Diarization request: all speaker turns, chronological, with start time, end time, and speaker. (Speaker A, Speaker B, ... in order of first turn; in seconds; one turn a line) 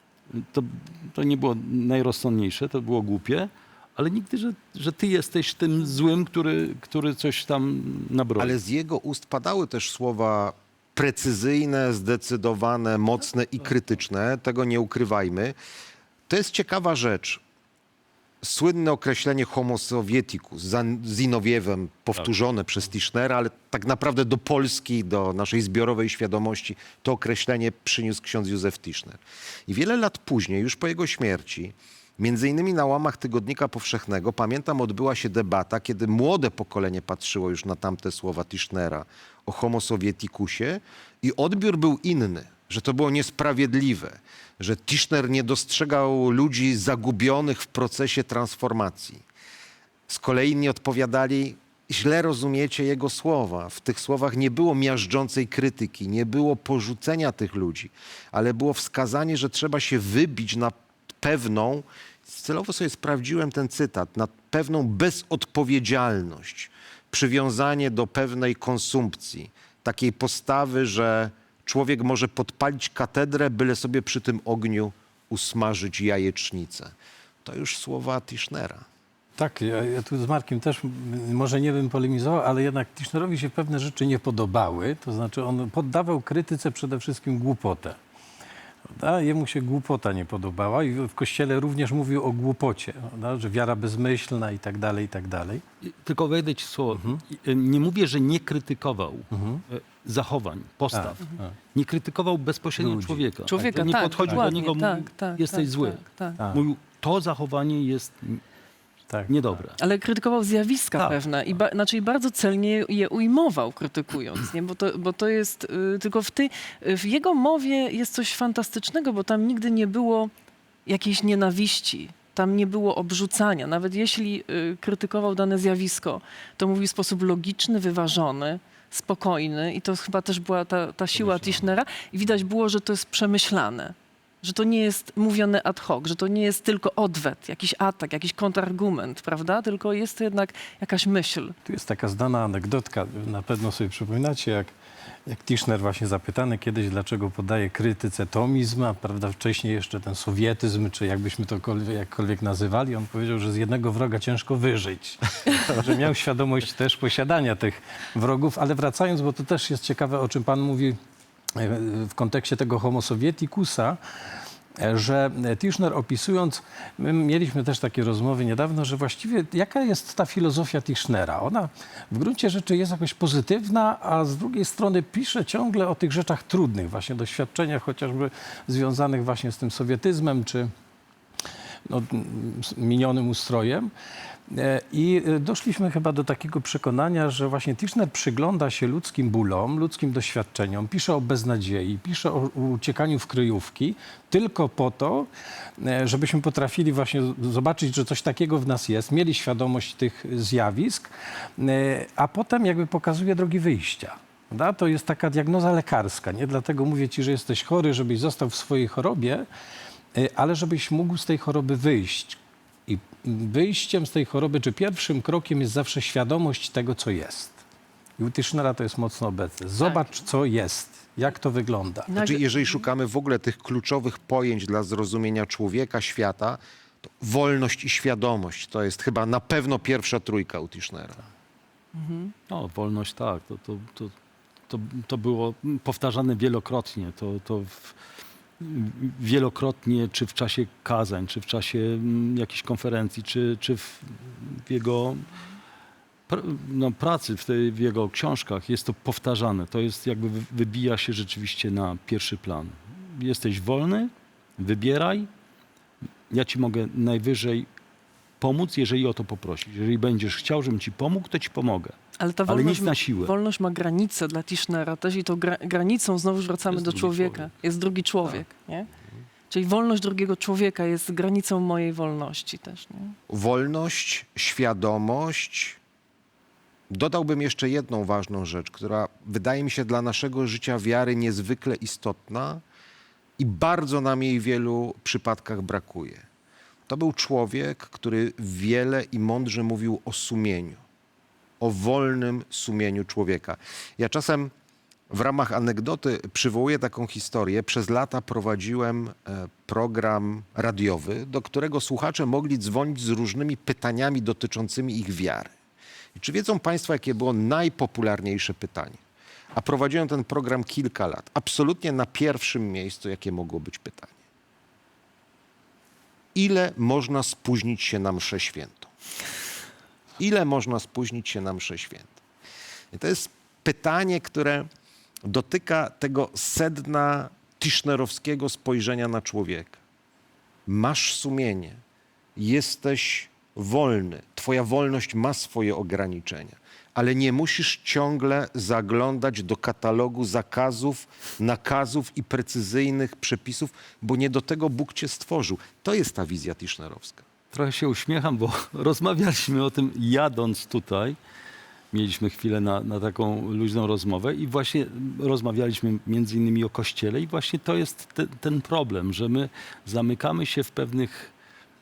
Speaker A: 0.3-8.6
Speaker B: 8.4-15.6
Speaker B: 16.3-17.4
Speaker B: 18.4-49.2
Speaker B: 50.1-76.9
Speaker B: 77.4-78.8
Speaker C: 79.4-88.0
Speaker C: 88.9-95.6
Speaker A: 95.8-108.4
Speaker C: 96.9-97.2
Speaker C: 99.3-99.6
Speaker C: 100.9-101.5
Speaker C: 102.8-104.5
Speaker D: 103.5-106.4
Speaker A: 109.3-109.8
Speaker D: 109.8-120.3
Speaker D: 120.8-141.5
Speaker C: 141.6-144.7
Speaker C: 145.3-161.0
Speaker C: 161.6-164.0
Speaker C: 164.8-180.7
Speaker C: 181.9-183.9
Speaker C: 184.5-195.3
Speaker C: 195.8-209.4
Speaker C: 210.1-217.6
Speaker C: 218.2-222.1
Speaker D: 219.8-220.1
Speaker D: 222.1-222.8
Speaker B: 222.1-226.6
Speaker B: 227.2-231.2
Speaker D: 231.9-232.3
Speaker A: 232.5-234.1
Speaker A: 234.7-238.0
Speaker A: 238.6-245.3
Speaker A: 246.3-255.3
Speaker A: 256.3-257.7
Speaker A: 258.4-263.3
Speaker D: 262.2-268.9
Speaker A: 266.7-267.5
Speaker D: 269.5-273.1
Speaker B: 273.3-275.8
Speaker B: 276.9-282.6
Speaker B: 283.4-286.2
Speaker B: 286.9-290.8
Speaker B: 291.6-294.5
Speaker B: 295.1-305.5
Speaker B: 306.1-309.0
Speaker B: 309.5-314.1
Speaker B: 316.3-318.9
Speaker B: 320.2-322.1
Speaker B: 322.9-324.7
Speaker B: 325.2-329.8
Speaker B: 330.7-331.8
Speaker B: 332.4-347.2
Speaker A: 347.5-351.2
Speaker A: 351.9-361.3